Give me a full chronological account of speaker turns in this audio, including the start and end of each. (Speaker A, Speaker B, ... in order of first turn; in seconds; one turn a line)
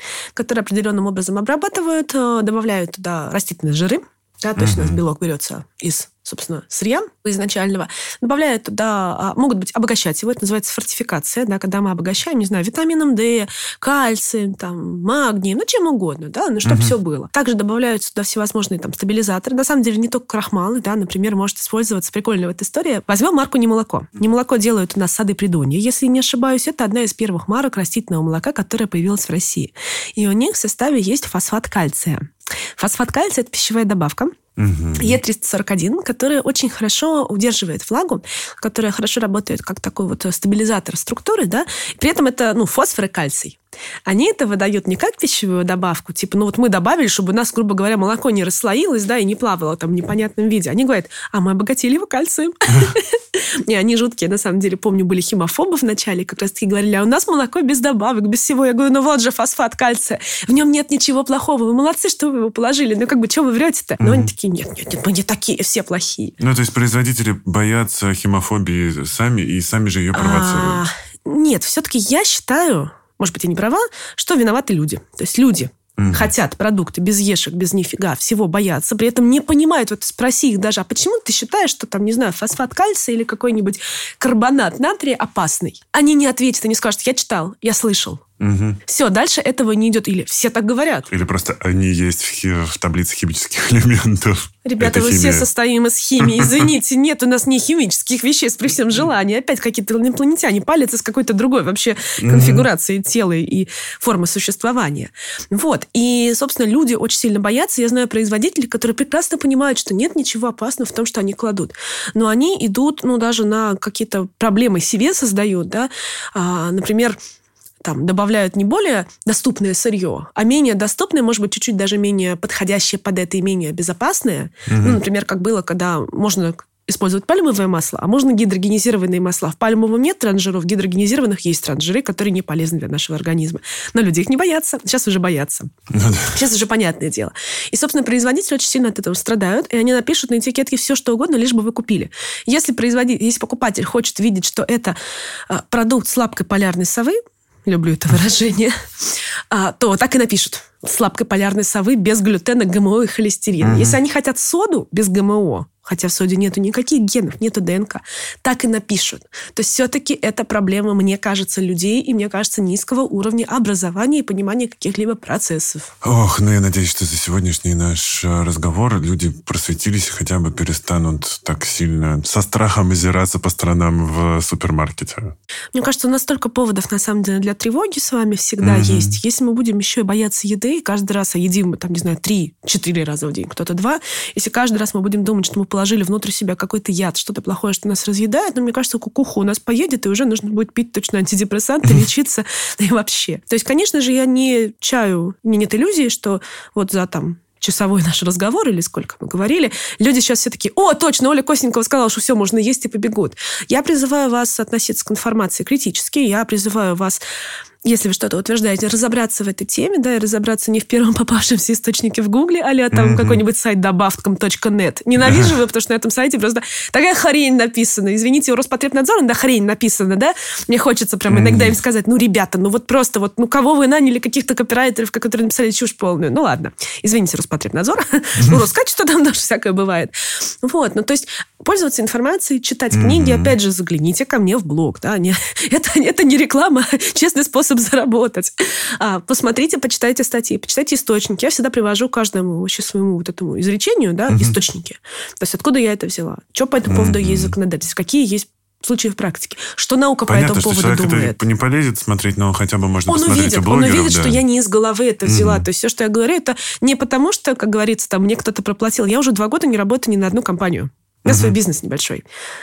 Speaker A: 0.3-34.4
Speaker B: 4.6-5.0
Speaker B: 16.6-16.9
Speaker B: 34.6-35.2
Speaker A: 35.0-66.3
Speaker B: 64.0-64.3
Speaker B: 66.4-70.8
Speaker A: 70.1-88.2
Speaker B: 76.0-76.3
Speaker B: 88.4-88.8
Speaker A: 88.9-91.1
Speaker B: 91.1-95.5
Speaker A: 94.6-117.2
Speaker B: 96.2-96.7
Speaker B: 102.2-102.7
Speaker A: 117.8-135.7
Speaker B: 124.7-125.0
Speaker B: 135.9-136.3
Speaker A: 136.3-144.9
Speaker A: 145.5-165.9
Speaker B: 153.6-154.0
Speaker B: 166.0-175.3
Speaker A: 175.7-207.2
Speaker B: 178.6-179.2
Speaker A: 207.8-251.4
Speaker B: 212.9-213.4
Speaker B: 215.2-215.5
Speaker B: 221.3-221.8
Speaker B: 232.9-233.5
Speaker B: 244.3-244.6
Speaker B: 246.9-247.5
Speaker B: 250.3-254.4
Speaker A: 253.1-262.2
Speaker B: 255.2-255.6
Speaker B: 261.3-261.6